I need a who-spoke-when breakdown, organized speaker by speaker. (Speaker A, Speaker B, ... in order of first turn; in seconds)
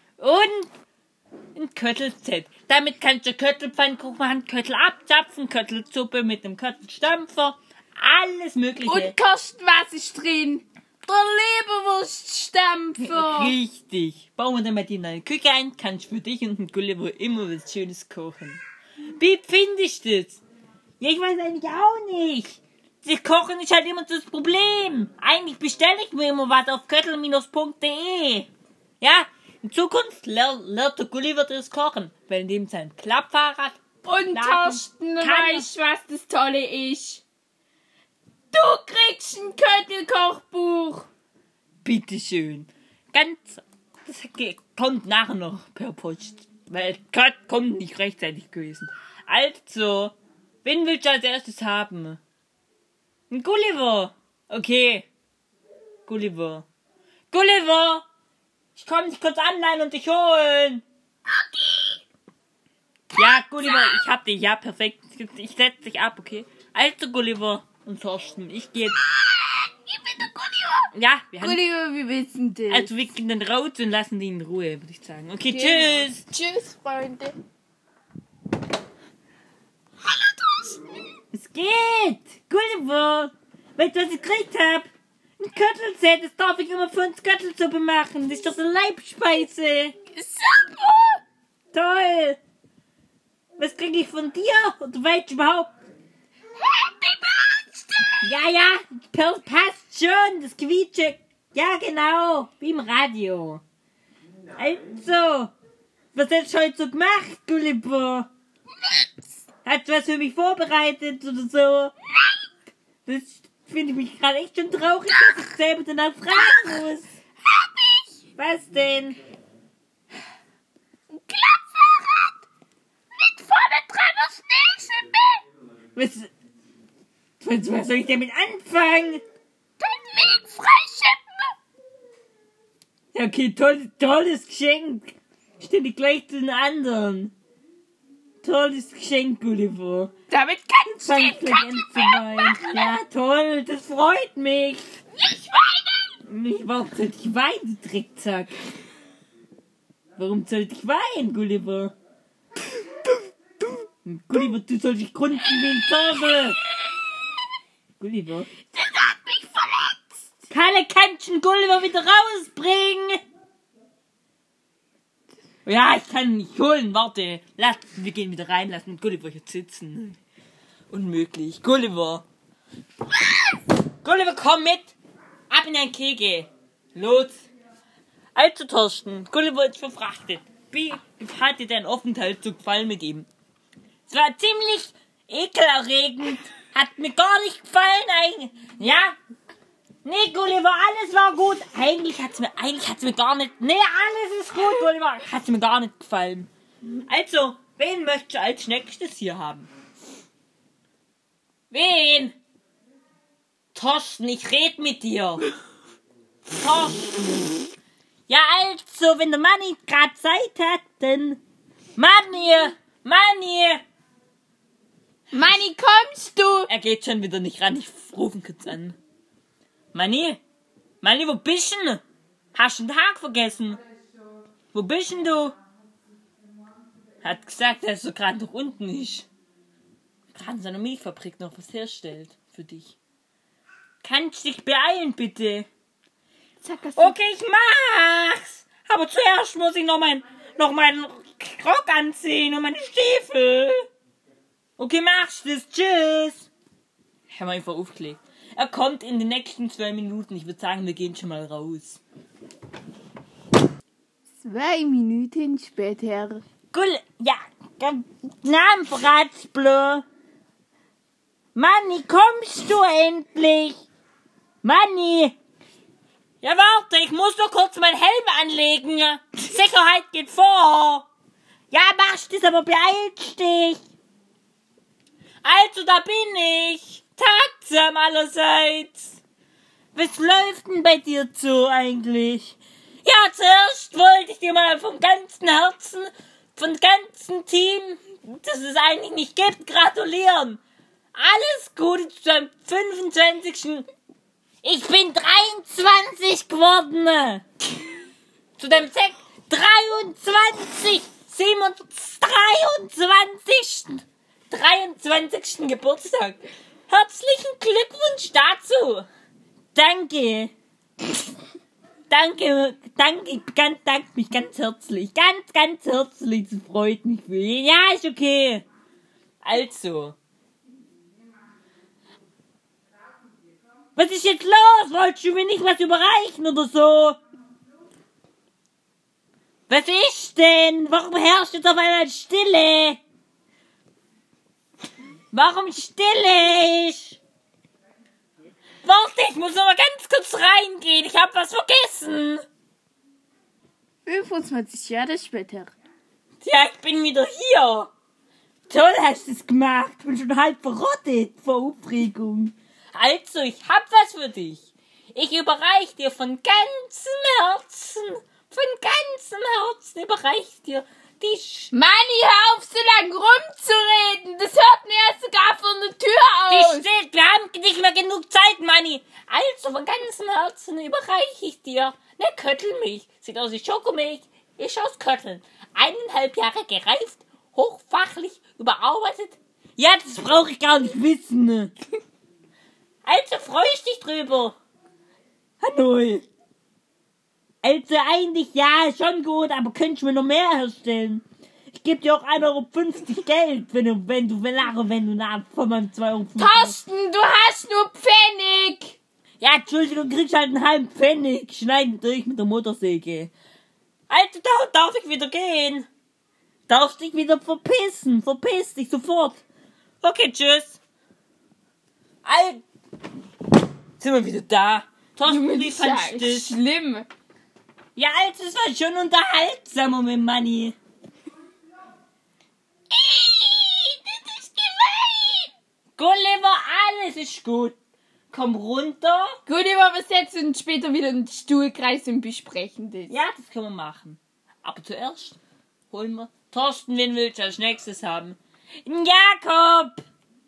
Speaker A: 0.2-0.7, 1.5-9.1, 13.0-18.6, 19.2-20.4, 21.0-28.5, 29.0-33.8, 34.3-35.7, 41.8-52.2, 53.3-55.1, 56.0-56.6, 57.3-58.0, 58.7-60.8, 63.1-69.0, 70.9-71.6, 72.7-76.2, 81.3-84.9, 85.4-89.9, 91.7-92.4, 93.6-95.7, 98.2-103.6, 104.5-105.5, 106.1-108.3, 109.6-111.9, 113.0-117.1, 118.4-119.2, 125.9-126.3, 127.4-129.2, 133.1-137.3, 138.4-140.1, 141.0-144.9, 146.2-148.6, 150.2-151.9, 154.0-156.6, 158.0-158.5, 160.5-163.2, 165.6-170.2, 170.9-172.2, 174.0-174.9, 175.5-177.4, 178.3-183.3, 184.1-189.2, 190.0-196.5, 197.1-199.7, 201.7-202.4, 203.7-205.5, 206.5-207.7, 208.3-211.4, 211.9-213.8, 216.7-219.0, 219.9-220.4, 221.0-222.0, 222.5-223.8, 224.7-225.6, 227.2-229.3, 230.3-232.9, 234.0-235.7, 237.0-243.8, 244.8-246.5, 247.3-252.0, 256.7-260.0, 261.5-263.8, 264.6-265.3, 266.4-271.1, 271.7-273.8, 275.4-279.2, 279.9-290.6, 291.1-293.9, 294.6-297.4, 298.6-309.1, 309.7-310.5, 312.1-318.6, 319.4-320.1, 323.9-327.2, 329.7-333.0, 335.3-337.2, 338.8-342.4, 346.4-347.9, 348.7-361.7, 366.5-381.7, 383.0-384.6, 385.6-386.3, 387.6-396.8, 399.4-403.3, 404.1-405.9, 406.7-409.4, 410.0-410.8, 412.2-412.6, 414.0-416.6, 417.9-420.8, 423.0-423.9, 424.7-425.4, 426.0-427.8, 428.3-429.4, 433.1-435.4, 435.9-440.0
Speaker B: 8.8-13.5, 34.0-37.2, 38.5-41.1, 61.5-62.0, 69.9-70.8, 71.4-72.9, 75.5-77.3, 80.0-80.9, 90.1-91.2, 96.6-98.2, 117.5-118.0, 121.1-122.4, 123.2-125.4, 129.8-131.2, 140.3-142.9, 145.2-146.0, 158.7-160.1, 215.3-216.7, 236.6-237.1, 254.4-256.4, 344.1-345.7, 361.7-366.9, 396.4-398.9, 415.2-417.1, 429.4-433.1